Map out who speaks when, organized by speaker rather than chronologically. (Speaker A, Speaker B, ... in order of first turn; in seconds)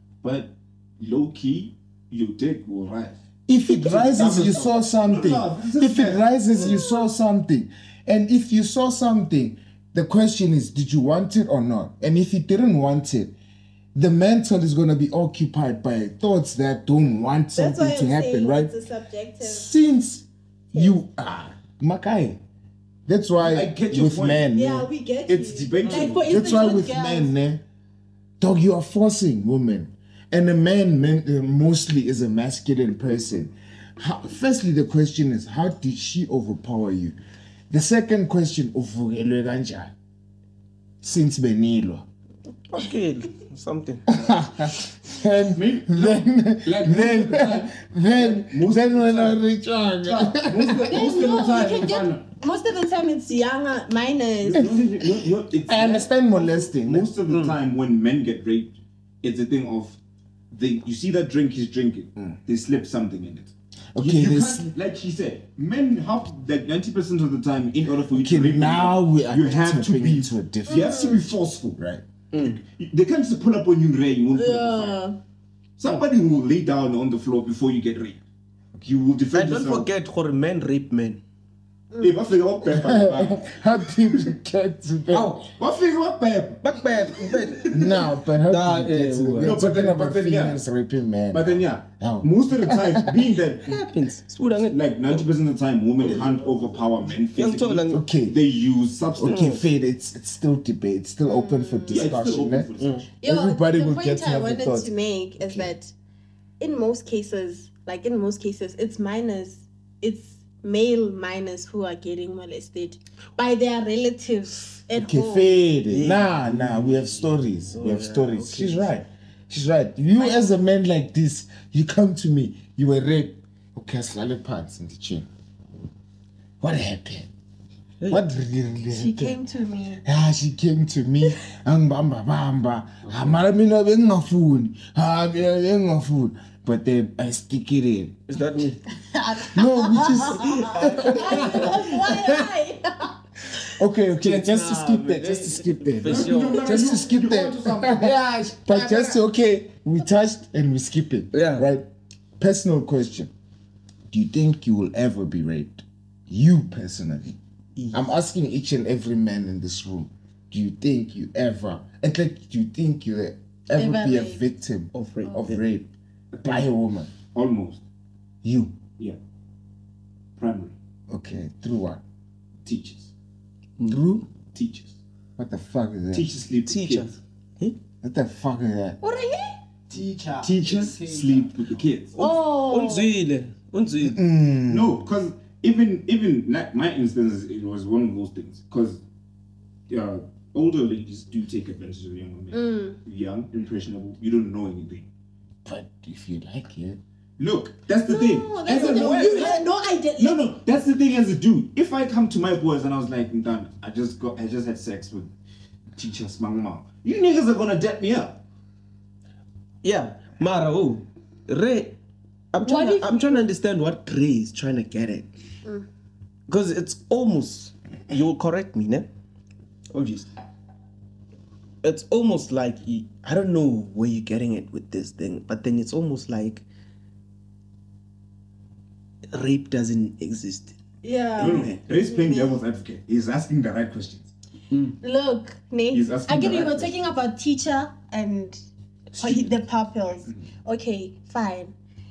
Speaker A: 0.2-3.2, 3.8-6.8, 23.4-24.5, 25.3-26.9, 45.5-49.4, 50.0-52.2, 54.4-60.0, 60.5-71.8, 72.6-75.0, 75.8-78.2, 78.8-79.9, 82.0-83.6, 85.4-87.9, 89.4-90.6, 91.3-93.9, 94.7-99.5, 101.9-103.0, 133.1-133.4, 146.0-148.2, 148.7-149.2, 166.3-167.8, 170.4-170.7, 172.6-173.1, 174.4-175.0, 176.1-177.2, 180.4-182.3, 184.7-189.0, 189.9-195.1, 197.4-205.3, 205.9-208.4, 231.4-234.3, 235.9-237.1, 239.2-239.5
Speaker B: 3.5-13.3, 13.9-18.7, 19.4-22.4, 23.1-24.9, 26.2-27.6, 28.4-37.1, 37.7-39.9, 41.0-42.0, 44.1-51.5, 55.7-57.1, 63.9-64.7, 68.1-72.0, 82.7-85.4, 87.7-93.3, 97.9-98.4, 99.2-102.7, 103.2-105.7, 114.9-125.3, 126.6-127.3, 128.1-129.4, 130.0-138.2, 139.4-142.4, 143.7-151.9, 152.4-153.3, 154.1-157.4, 157.9-165.9, 166.4-167.1, 168.4-168.8, 171.1-172.0, 173.9-174.2, 175.4-176.3, 178.0-179.0, 184.0-185.0, 195.6-197.0
Speaker C: 3.7-5.5, 42.7-44.1, 57.3-57.6, 72.3-72.6, 79.3-81.2, 85.1-85.5, 86.6-89.7, 93.6-95.3, 97.3-98.0, 99.2-99.6, 102.8-103.0, 115.9-119.0, 138.3-138.8, 140.1-141.9, 144.2-146.9, 151.3-151.7, 157.8-158.1, 164.9-165.6, 173.8-174.0, 176.7-177.8, 182.6-184.2, 198.8-199.6, 209.8-212.0, 212.5-215.3, 216.5-219.1, 219.9-220.3, 221.8-226.7, 229.3-230.8, 231.4-231.8, 234.7-235.0
Speaker D: 6.5-7.1, 17.6-19.7, 24.5-27.3, 50.8-54.7, 70.7-71.2, 74.3-75.2, 101.2-102.2, 103.2-105.9, 106.6-115.7, 120.2-120.6, 128.9-130.0, 138.9-143.8, 163.7-164.4, 179.0-179.6, 182.2-183.2, 192.5-193.0, 198.0-200.4, 212.6-213.4, 231.0-232.6, 235.0-238.6, 239.2-241.7
Speaker E: 179.9-181.9